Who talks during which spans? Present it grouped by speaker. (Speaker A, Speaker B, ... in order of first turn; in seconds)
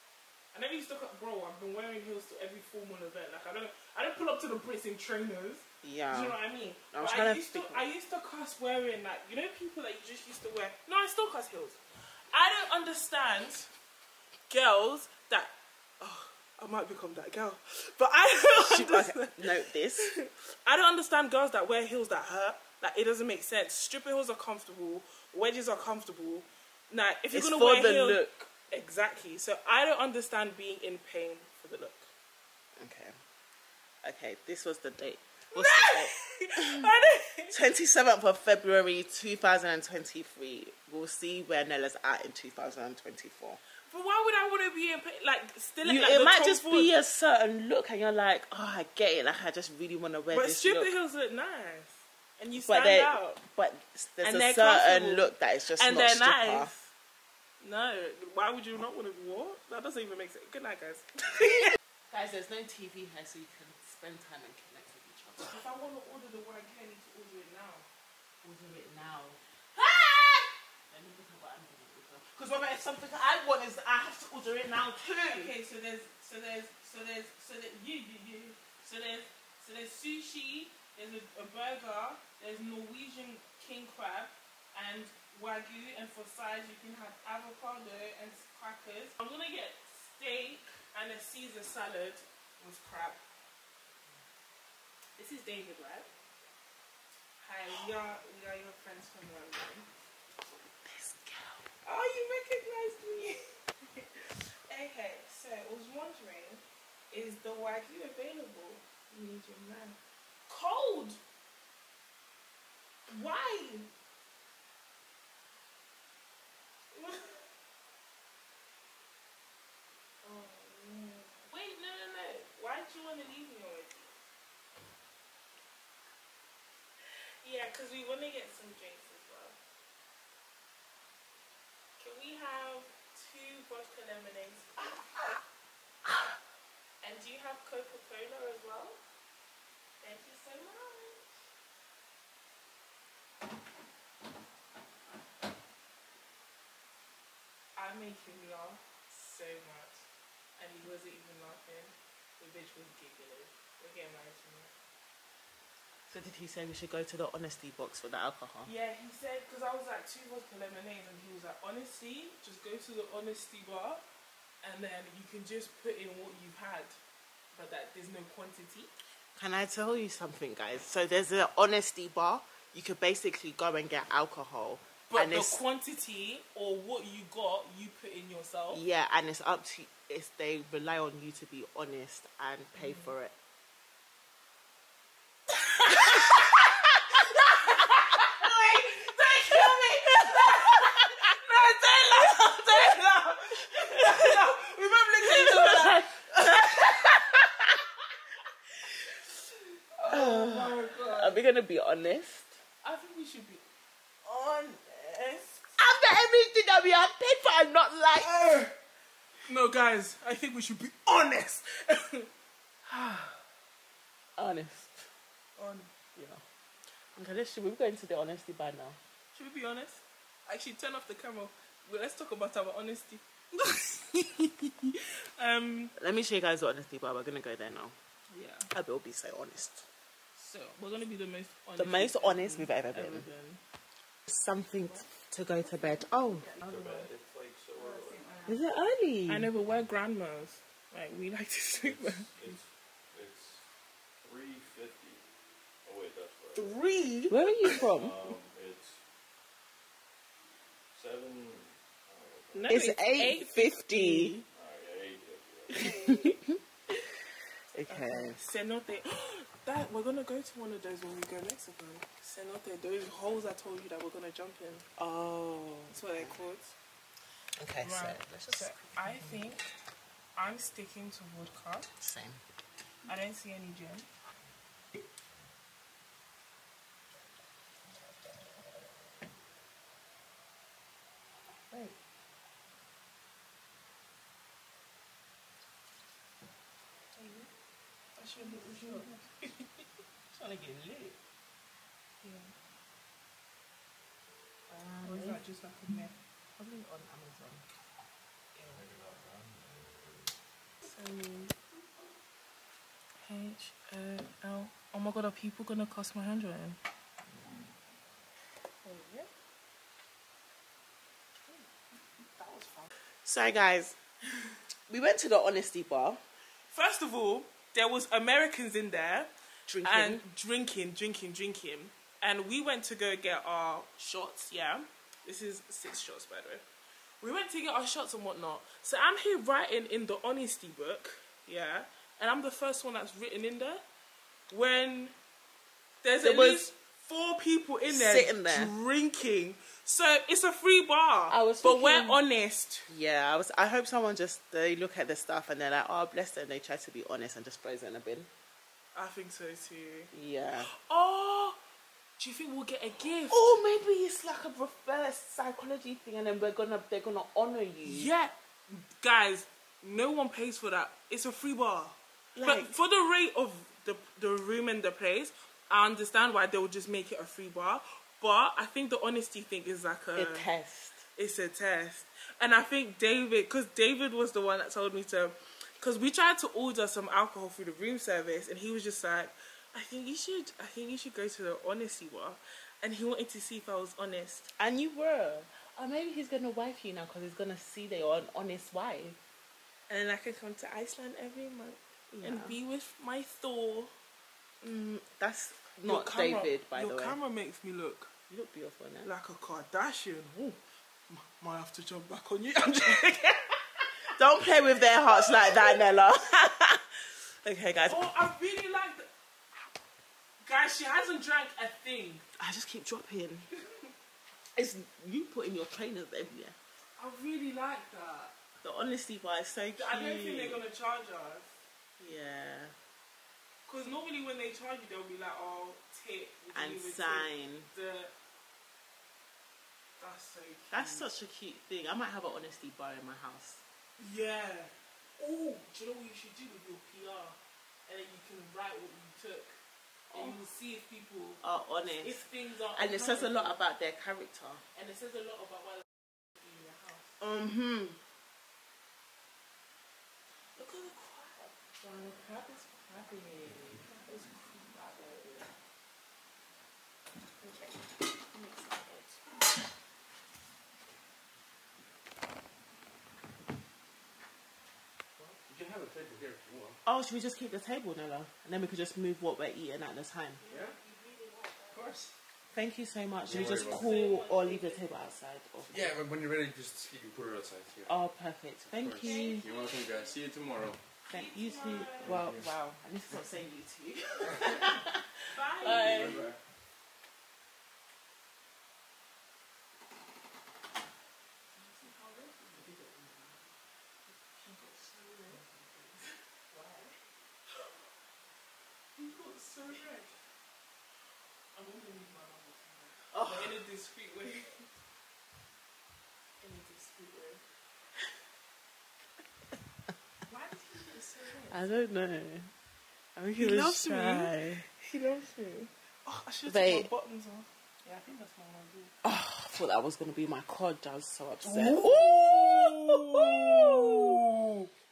Speaker A: 0.5-11.8, 12.3-13.7, 14.5-19.4, 20.0-32.1, 35.5-37.5, 43.9-46.9, 50.3-53.4, 54.2-55.3, 55.8-56.7, 57.6-61.7, 65.5-67.9, 75.2-93.2, 95.2-96.1, 97.4-99.9, 101.8-104.1, 104.7-111.2, 113.1-113.9, 116.9-117.4, 120.2-124.2, 127.1-129.6, 132.0-134.8, 137.0-139.0, 140.0-141.2, 147.8-150.0, 150.6-154.7, 158.6-164.0, 164.6-167.0, 167.5-168.9, 175.1-178.8, 182.8-183.1, 185.8-186.3, 187.8-196.7, 199.9-201.4, 202.8-203.6, 204.2-205.6, 208.2-208.7, 209.5-212.3, 215.6-215.9, 219.3-225.9, 228.3-228.7, 230.3-233.6, 236.6-237.1, 237.8-238.4, 239.3-242.3, 246.5-247.8, 252.5-254.4, 255.7-256.4, 257.9-264.9, 265.9-266.7, 267.8-269.6, 270.4-271.9, 273.1-274.1, 287.1-287.5, 288.2-289.6, 292.2-292.5, 295.0-296.1, 300.8-301.5, 303.2-306.8, 308.8-309.3, 311.4-312.9, 316.7-319.3, 319.8-326.6, 327.2-333.8, 334.5-335.1, 336.0-342.9, 348.9-350.1, 350.7-351.6, 352.2-353.4, 357.8-370.5, 371.1-384.5, 389.9-393.9, 395.8-398.1, 399.0-403.5, 405.1-405.7, 407.9-409.1, 410.4-412.2, 417.0-418.3, 419.8-421.6, 423.7-428.1, 430.0-431.1, 434.0-439.6, 440.1-441.4, 442.0-443.6, 444.7-447.1, 450.6-455.5, 457.4-459.2, 470.4-472.1, 473.6-474.9, 479.0-479.8, 481.1-482.2, 485.3-486.2, 491.5-492.7, 494.4-495.4, 496.5-496.9, 499.0-500.1, 501.5-504.7, 506.4-507.4, 510.2-511.7, 513.4-518.9, 521.4-524.7
Speaker B: 5.8-6.4, 6.9-7.8, 18.4-20.1, 27.3-28.5, 32.8-33.1, 34.0-36.9, 37.5-43.6, 45.8-50.9, 52.5-56.9, 62.1-65.5, 68.4-75.5, 100.8-101.6, 156.1-158.7, 169.3-175.6, 178.7-183.3, 185.8-191.1, 193.7-194.4, 195.2-197.9, 200.1-202.6, 205.8-208.5, 212.9-213.3, 214.4-215.1, 216.1-216.4, 217.1-219.0, 225.9-227.9, 228.7-229.8, 231.8-233.3, 234.2-236.5, 238.4-239.5, 247.3-248.2, 252.7-254.4, 255.8-256.6, 257.7-258.4, 265.0-266.4, 267.6-269.4, 272.0-272.4, 288.4-289.2, 290.3-291.2, 294.7-295.4, 296.6-297.6, 298.5-298.9, 313.2-314.0, 314.9-316.2, 319.7-320.2, 336.2-336.7, 337.9-338.7, 341.3-342.2, 342.9-348.3, 350.1-350.7, 353.3-358.1, 362.3-362.7, 370.1-371.0, 384.6-389.2, 392.1-392.6, 394.6-397.2, 398.3-399.1, 404.1-408.0, 412.4-413.5, 414.6-416.6, 418.6-420.6, 422.0-422.7, 426.5-427.7, 430.7-433.6, 440.1-440.4, 441.4-444.6, 447.2-448.0, 466.9-470.4, 472.5-475.9, 477.9-479.7, 481.1-486.2, 492.5-493.5, 495.3-496.0, 503.1-503.6, 511.5-512.5, 513.1-514.6, 516.5-516.9, 519.0-524.3
Speaker C: 236.6-238.3, 242.3-243.6, 244.2-245.2, 245.8-246.8, 247.8-249.0, 250.9-252.8, 254.5-255.8, 298.8-299.5, 465.2-466.8, 470.5-470.7, 473.2-474.0, 475.7-477.9, 478.7-480.8, 482.0-482.5, 485.6-486.4